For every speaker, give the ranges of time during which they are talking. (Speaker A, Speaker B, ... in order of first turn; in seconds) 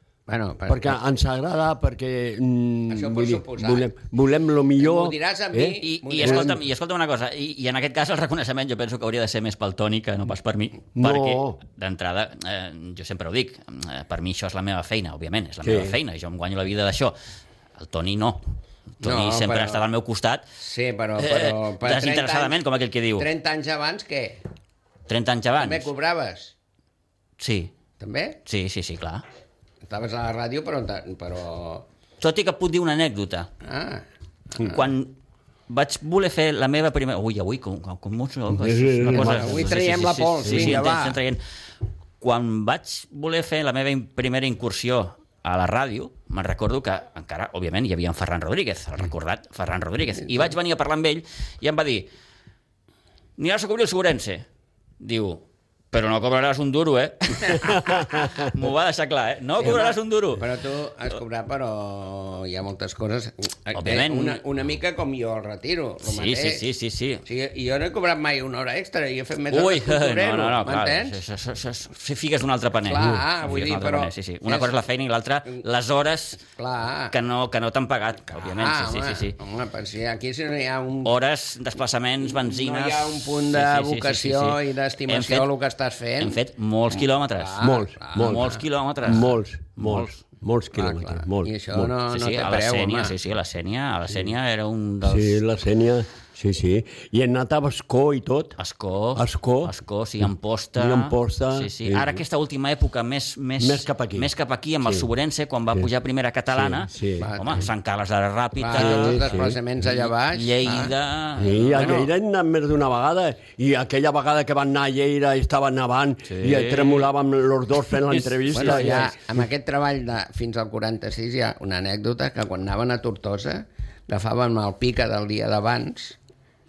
Speaker A: 0.3-1.0, 2.9-3.9, 4.8-6.6, 19.0-19.9, 20.6-22.6, 23.2-24.4, 25.6-26.6, 28.0-28.4, 29.8-31.9, 33.6-34.9, 39.1-41.2, 50.3-50.5, 59.6-66.6, 67.2-71.2, 72.8-74.7, 76.6-77.1, 78.4-81.1, 82.2-88.6, 90.7-93.2, 107.2-107.7, 108.6-110.9, 111.8-112.1, 118.5-126.2
Speaker B: 0.7-6.6, 11.0-11.6, 15.6-16.0, 38.5-39.9, 40.4-40.8, 87.6-91.9, 95.0-98.6, 99.1-102.2, 103.6-104.3, 104.8-105.1, 106.5-107.3, 108.7-109.6, 111.4-119.1
Speaker C: 5.8-17.1, 17.8-18.4, 19.0-20.4, 21.2-23.3, 25.1-25.9, 27.4-27.7, 28.4-29.2, 32.2-33.5, 34.6-35.1, 35.7-41.4, 42.2-52.1, 53.4-54.5, 55.0-60.5, 63.8-64.4, 66.0-67.2, 69.5-76.4, 77.1-79.4, 81.0-85.5, 86.2-87.6, 88.1-90.2, 92.1-95.4, 98.6-112.1, 116.3-117.1, 118.1-119.1